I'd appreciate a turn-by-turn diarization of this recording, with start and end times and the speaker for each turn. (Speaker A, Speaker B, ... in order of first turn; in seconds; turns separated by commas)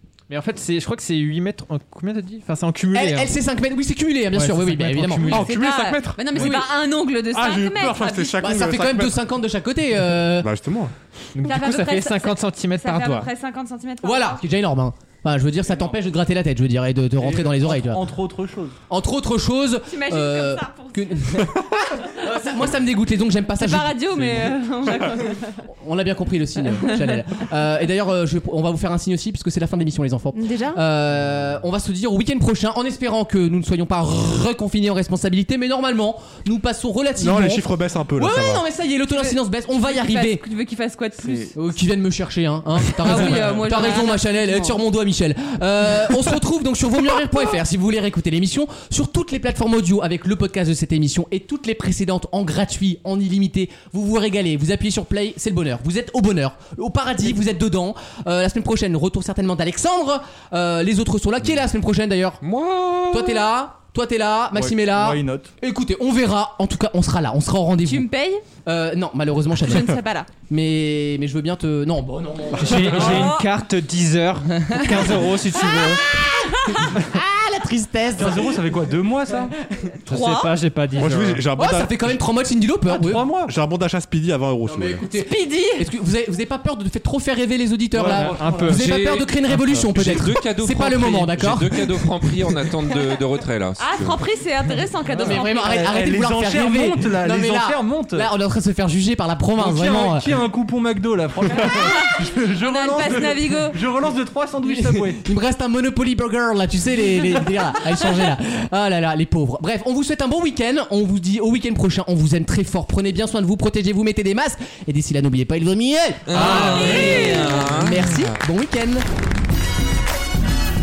Speaker A: 0.3-3.3, Speaker B: 2.9-5.4, Speaker A: 4.3-5.5, Speaker C: 5.3-8.4, Speaker D: 5.3-6.7, Speaker D: 7.3-9.2, Speaker B: 8.4-10.5, Speaker D: 10.2-10.9, Speaker A: 11.3-13.3, Speaker C: 11.4-14.4, Speaker B: 14.0-18.0, Speaker E: 15.7-16.0, Speaker E: 17.2-18.8, Speaker B: 18.9-24.3, Speaker C: 19.9-21.6, Speaker C: 23.6-25.6, Speaker B: 25.8-40.4, Speaker C: 30.3-30.8, Speaker D: 37.2-38.6, Speaker C: 39.2-41.6, Speaker B: 41.5-62.4, Speaker C: 43.0-44.8, Speaker F: 62.4-63.5, Speaker B: 63.1-68.1, Speaker E: 64.5-65.5, Speaker C: 67.8-68.4, Speaker B: 68.7-70.0, Speaker C: 69.6-70.3, Speaker B: 70.5-73.3, Speaker A: 72.6-76.0, Speaker C: 72.9-73.5, Speaker B: 75.6-78.6, Speaker C: 76.6-76.9, Speaker E: 78.2-79.5, Speaker C: 80.1-80.5, Speaker A: 80.1-81.4, Speaker D: 81.0-82.2, Speaker B: 81.5-83.2, Speaker E: 82.8-83.5, Speaker D: 83.5-85.0, Speaker B: 84.7-92.1, Speaker C: 85.2-85.9, Speaker E: 87.9-88.7, Speaker A: 88.1-89.0, Speaker F: 88.7-94.2, Speaker C: 93.8-95.9, Speaker E: 95.2-98.3, Speaker B: 95.2-100.3, Speaker E: 99.6-105.2, Speaker C: 101.5-103.8, Speaker B: 104.7-119.1, Speaker F: 116.3-118.4, Speaker C: 116.4-117.7